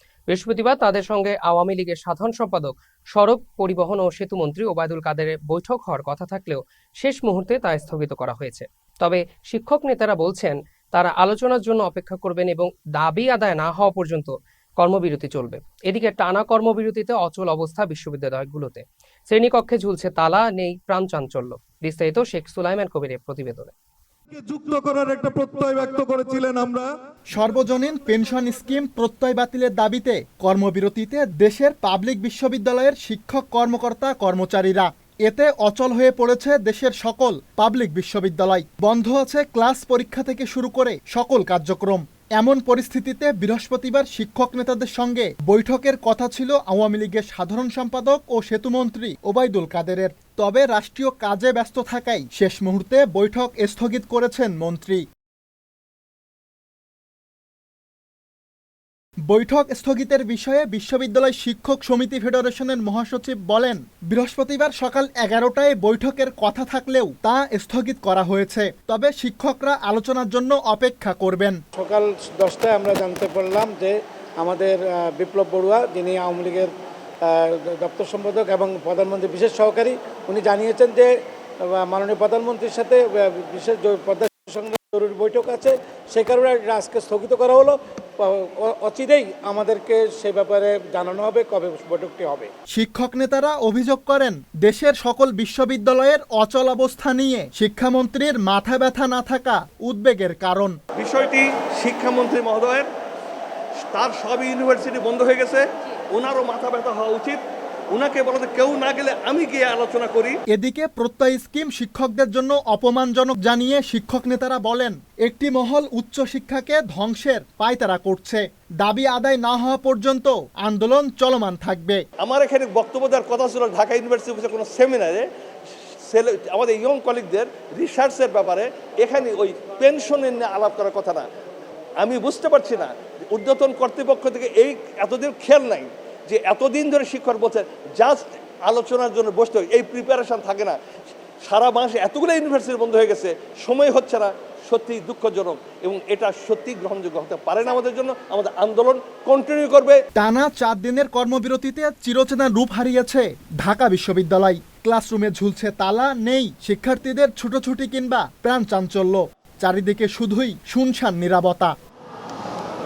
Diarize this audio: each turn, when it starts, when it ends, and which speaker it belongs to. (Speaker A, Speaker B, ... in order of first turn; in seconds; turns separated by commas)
Speaker A: 0.3-23.7, Speaker B: 24.3-26.9, Speaker C: 27.3-55.0, Speaker C: 59.3-71.6, Speaker D: 71.7-76.7, Speaker D: 77.2-81.1, Speaker D: 81.6-92.5, Speaker C: 92.7-100.8, Speaker E: 101.0-102.9, Speaker E: 103.9-107.4, Speaker E: 107.9-110.4, Speaker C: 110.5-122.0, Speaker E: 122.2-125.2, Speaker E: 126.1-131.2, Speaker E: 132.0-140.8, Speaker E: 141.4-150.0, Speaker C: 150.2-161.7